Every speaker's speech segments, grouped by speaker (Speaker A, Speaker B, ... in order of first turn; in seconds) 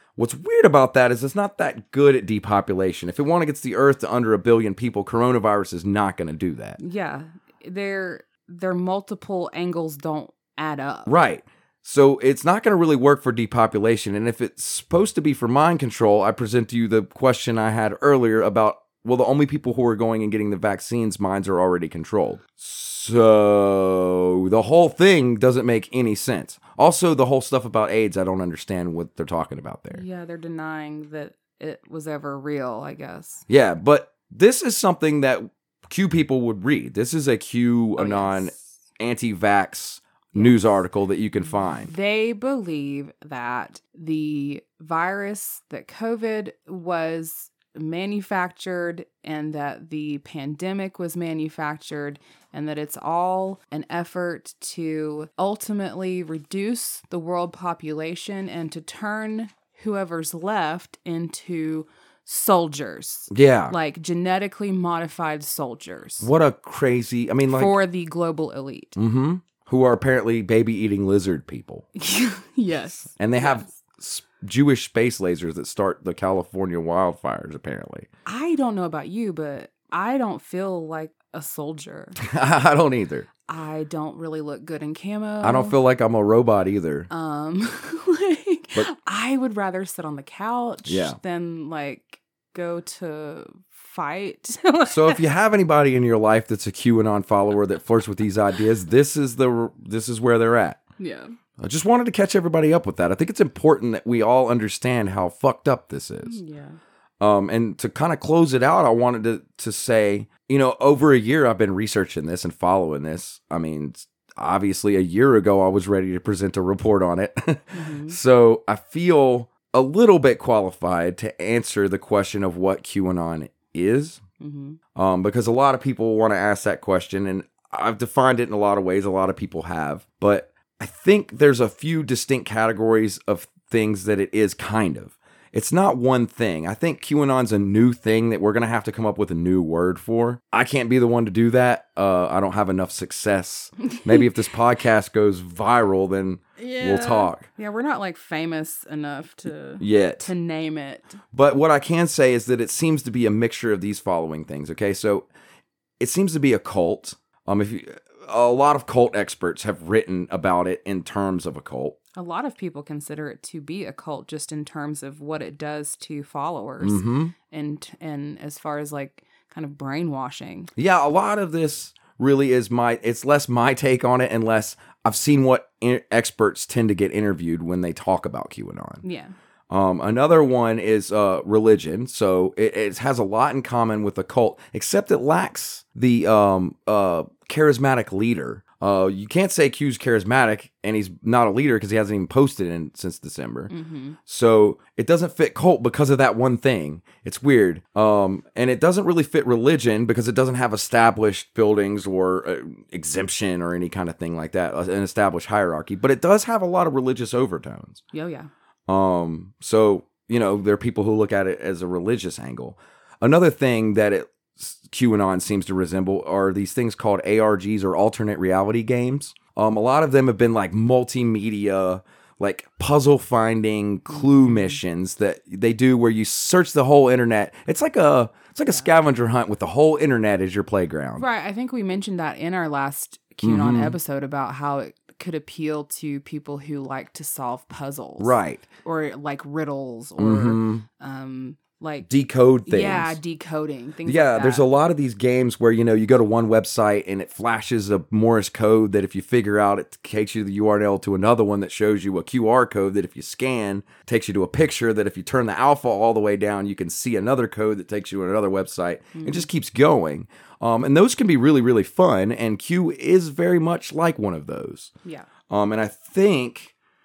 Speaker A: 0.2-6.8, 11.1-30.0, 33.5-41.9, 63.3-63.8, 66.2-67.7, 69.0-71.9, 73.2-78.1, 82.2-83.3, 85.4-87.1, 90.9-91.2, 94.9-100.8, 101.6-106.4, 107.2-124.2, 125.0-147.4, 149.8-150.3, 151.3-155.3, 156.0-162.0, 166.8-167.3, 170.8-179.0, 179.7-193.7, 194.3-208.0, 208.9-231.2, 233.4-234.0, 238.2-238.7, 240.2-240.8, 242.1-243.2, 244.1-264.9, 265.5-266.7
Speaker B: 6.8-11.1, 29.9-33.5, 38.0-38.6, 40.4-40.8, 41.9-66.3, 67.5-69.0, 72.0-73.8, 78.3-82.2, 83.5-85.8, 87.1-95.2, 101.0-101.3, 106.2-106.8, 117.7-118.2, 124.4-124.8, 143.9-144.2, 146.6-151.2, 162.2-170.7, 179.0-179.3, 193.7-194.2, 208.1-208.5, 224.1-224.8, 231.2-242.1, 242.7-244.7, 259.1-259.5